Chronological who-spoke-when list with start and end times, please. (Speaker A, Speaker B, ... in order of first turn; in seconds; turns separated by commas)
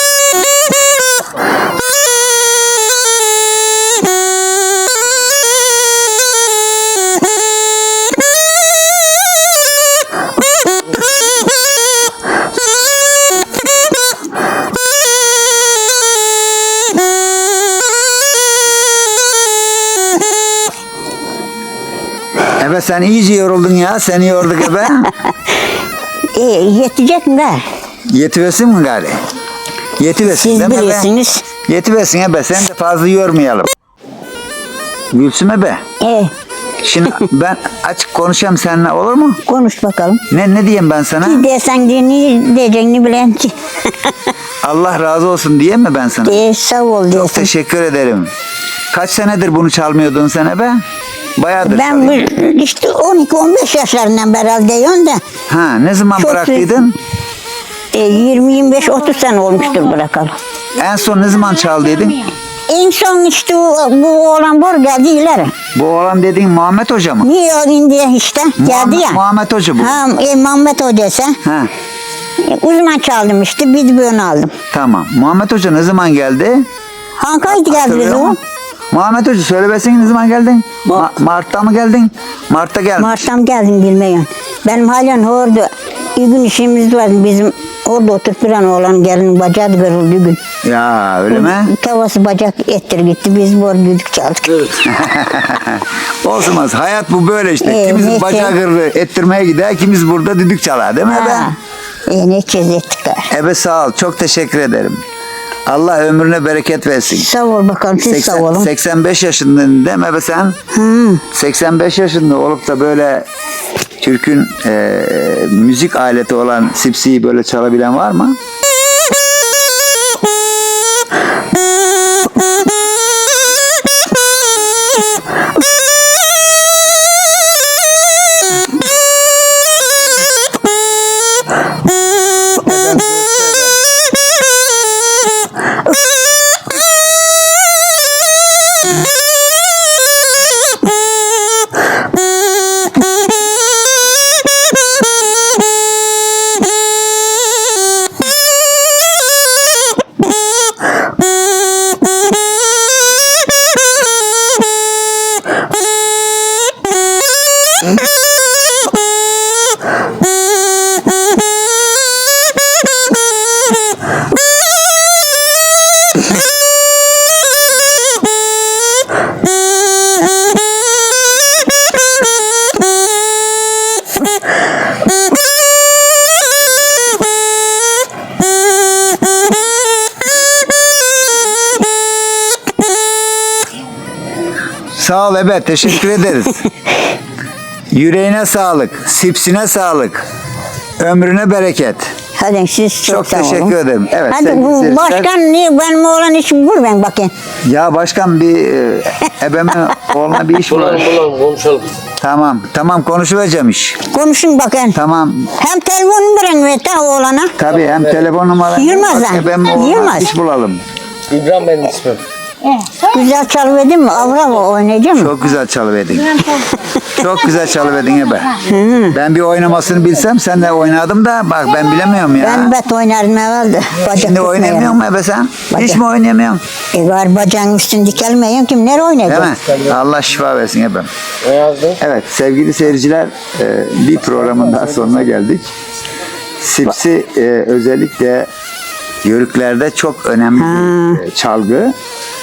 Speaker A: 22.6-25.1, Speaker B: 26.3-27.7, Speaker A: 28.1-29.2, Speaker A: 30.0-31.1, Speaker B: 30.2-31.4, Speaker A: 31.7-33.7, Speaker A: 35.1-35.8, Speaker B: 36.0-36.3, Speaker A: 36.8-39.4, Speaker B: 39.5-40.2, Speaker A: 40.3-41.5, Speaker B: 41.2-44.3, Speaker A: 44.6-46.4, Speaker B: 46.2-47.5, Speaker A: 47.1-48.3, Speaker A: 48.9-50.8, Speaker A: 51.4-52.2, Speaker B: 51.6-55.2, Speaker A: 55.5-57.0, Speaker B: 56.2-56.8, Speaker B: 57.9-60.4, Speaker A: 60.8-62.3, Speaker B: 62.7-65.5, Speaker A: 65.8-67.3, Speaker B: 67.2-69.2, Speaker A: 68.6-70.0, Speaker B: 69.8-71.4, Speaker A: 71.5-71.7, Speaker B: 72.4-74.5, Speaker A: 74.7-76.7, Speaker B: 77.2-78.4, Speaker A: 77.5-78.4, Speaker A: 78.9-83.3, Speaker B: 83.0-90.4, Speaker A: 90.6-91.7, Speaker B: 91.3-94.8, Speaker A: 94.8-101.5, Speaker B: 97.6-98.5, Speaker B: 101.0-103.3, Speaker A: 103.3-105.0, Speaker A: 105.7-107.3, Speaker B: 107.1-108.7, Speaker A: 108.1-110.6, Speaker B: 110.7-111.2, Speaker A: 111.3-113.3, Speaker A: 114.0-118.4, Speaker A: 132.6-133.8, Speaker A: 184.9-186.6, Speaker A: 187.9-190.3, Speaker A: 191.0-192.1, Speaker B: 192.4-193.8, Speaker A: 193.1-195.3, Speaker B: 194.3-197.3, Speaker A: 197.7-201.2, Speaker C: 200.7-201.9, Speaker A: 202.2-204.0, Speaker B: 204.1-205.0, Speaker A: 204.9-205.5, Speaker B: 205.6-207.6, Speaker A: 207.6-210.8, Speaker B: 208.7-210.3, Speaker C: 211.3-212.2, Speaker B: 212.9-215.4, Speaker A: 215.2-222.7, Speaker B: 218.6-219.2, Speaker B: 222.4-225.0, Speaker A: 224.1-226.6, Speaker B: 225.7-226.0, Speaker B: 226.9-229.6, Speaker A: 229.3-231.1, Speaker C: 231.4-232.0, Speaker A: 232.0-235.7, Speaker A: 236.6-238.5, Speaker A: 239.2-241.9, Speaker B: 240.6-241.2